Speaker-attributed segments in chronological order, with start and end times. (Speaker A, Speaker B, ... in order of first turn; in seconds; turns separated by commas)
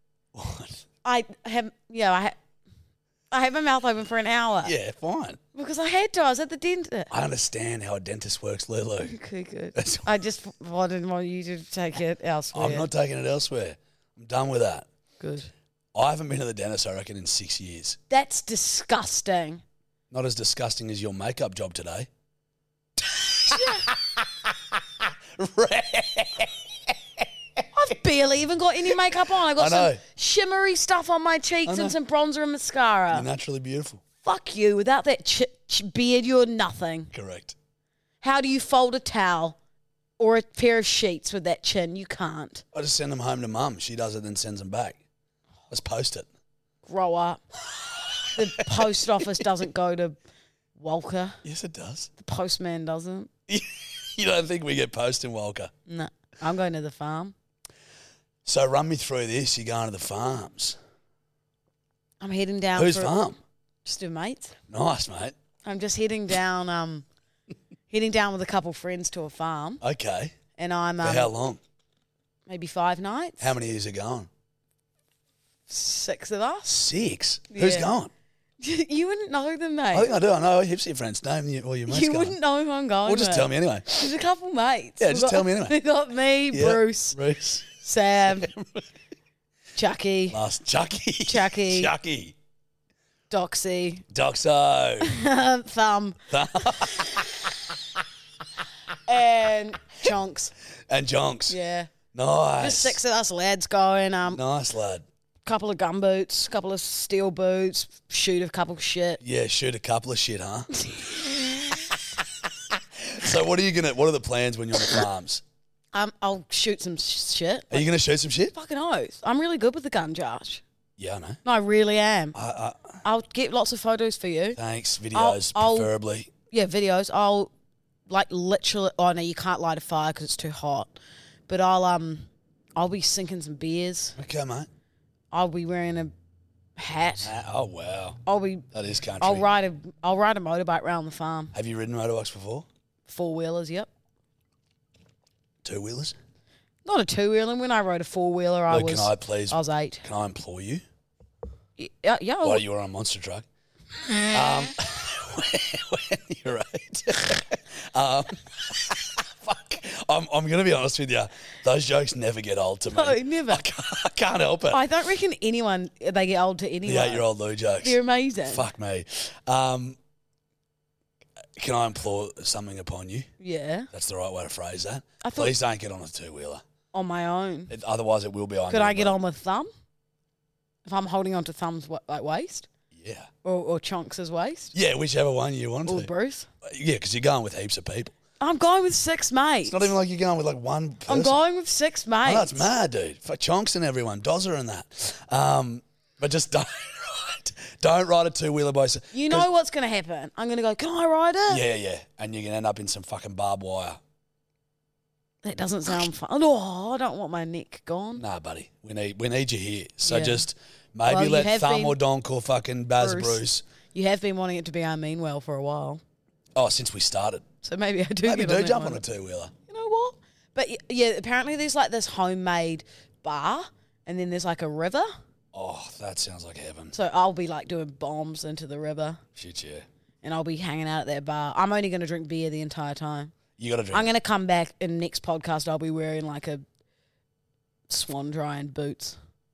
Speaker A: 0.3-0.8, Speaker B: 1.0-2.3, Speaker B: 3.3-4.7, Speaker A: 4.6-5.4, Speaker B: 5.5-7.1, Speaker A: 7.1-9.2, Speaker B: 9.0-12.9, Speaker A: 9.7-10.1, Speaker A: 12.5-14.9, Speaker B: 15.2-15.5, Speaker A: 15.9-18.0, Speaker B: 18.1-19.6, Speaker A: 20.1-22.1, Speaker A: 23.0-27.2, Speaker B: 23.5-23.9, Speaker B: 27.7-33.3, Speaker A: 29.1-30.0, Speaker A: 31.6-31.9, Speaker A: 33.1-34.0, Speaker B: 34.2-37.1, Speaker A: 37.1-37.5, Speaker B: 38.2-39.5, Speaker B: 40.2-42.6, Speaker A: 42.7-45.0, Speaker A: 45.7-46.3, Speaker B: 46.9-47.4, Speaker A: 48.2-49.2, Speaker B: 48.3-50.2, Speaker B: 50.8-51.4, Speaker A: 51.4-52.1, Speaker B: 52.2-53.3, Speaker A: 53.5-55.7, Speaker B: 55.9-57.3, Speaker A: 58.4-60.8, Speaker B: 62.2-63.2, Speaker A: 62.7-63.4, Speaker B: 63.8-64.6, Speaker A: 64.7-65.3, Speaker B: 65.6-67.0, Speaker B: 67.9-69.8, Speaker A: 69.8-70.3, Speaker B: 70.5-71.3, Speaker A: 71.0-71.6, Speaker B: 72.5-73.5, Speaker A: 73.4-74.3, Speaker B: 75.7-76.8, Speaker A: 76.7-78.1, Speaker B: 77.5-77.9, Speaker B: 78.6-80.1, Speaker A: 79.9-82.4, Speaker B: 81.9-87.2, Speaker A: 83.0-84.1, Speaker A: 85.0-85.8, Speaker A: 86.5-87.7, Speaker B: 87.8-88.5, Speaker A: 88.4-88.8, Speaker B: 89.8-90.4, Speaker A: 90.3-92.3, Speaker B: 91.3-91.9, Speaker B: 93.3-94.0, Speaker A: 94.1-95.2, Speaker B: 95.0-97.1, Speaker A: 96.3-97.4, Speaker B: 99.1-100.5, Speaker A: 100.9-101.6, Speaker B: 101.5-101.9, Speaker A: 102.1-103.0, Speaker B: 102.6-104.4, Speaker A: 104.3-105.0, Speaker B: 105.4-109.2, Speaker A: 109.2-110.7, Speaker A: 112.7-115.4, Speaker B: 115.9-117.9, Speaker A: 117.7-118.5, Speaker B: 118.5-120.6, Speaker A: 121.0-121.4, Speaker B: 121.4-122.3, Speaker A: 122.3-123.0, Speaker B: 123.0-124.6, Speaker A: 124.5-126.3, Speaker B: 125.1-125.9, Speaker B: 126.5-127.5, Speaker B: 128.1-130.9, Speaker B: 131.5-134.2, Speaker A: 134.2-134.7, Speaker B: 135.3-136.1, Speaker B: 136.8-137.3, Speaker A: 137.2-138.2, Speaker B: 138.2-138.7, Speaker A: 138.7-139.5, Speaker B: 139.2-141.5, Speaker A: 141.5-142.7, Speaker B: 143.1-143.9, Speaker A: 145.6-146.2, Speaker B: 146.8-150.0, Speaker A: 148.7-150.8, Speaker B: 151.8-152.6, Speaker A: 152.4-153.4, Speaker A: 154.3-164.8, Speaker B: 162.9-163.6, Speaker B: 164.7-167.2, Speaker A: 166.8-170.0, Speaker B: 167.8-168.6, Speaker A: 171.6-173.3, Speaker B: 173.4-173.9, Speaker A: 173.9-176.6, Speaker B: 175.2-175.5, Speaker B: 176.9-177.7, Speaker A: 177.7-179.2, Speaker B: 178.7-179.7, Speaker B: 180.8-182.7, Speaker A: 182.9-183.3, Speaker B: 183.4-184.7, Speaker A: 184.7-186.1, Speaker B: 185.8-186.5, Speaker A: 186.6-188.1, Speaker B: 188.4-189.9, Speaker A: 189.6-191.4, Speaker B: 191.1-192.7, Speaker A: 192.2-199.5, Speaker B: 199.1-201.6, Speaker A: 201.5-204.0, Speaker B: 205.4-208.2, Speaker A: 208.2-213.6, Speaker B: 210.0-210.4, Speaker B: 211.1-212.0, Speaker B: 213.0-216.0, Speaker A: 216.5-217.4, Speaker B: 217.6-219.0, Speaker A: 218.2-219.5, Speaker B: 219.7-225.1, Speaker A: 225.5-226.9, Speaker B: 226.9-229.2, Speaker A: 229.3-229.8, Speaker B: 230.2-233.3, Speaker A: 233.6-234.1, Speaker B: 233.9-236.6, Speaker B: 237.9-239.2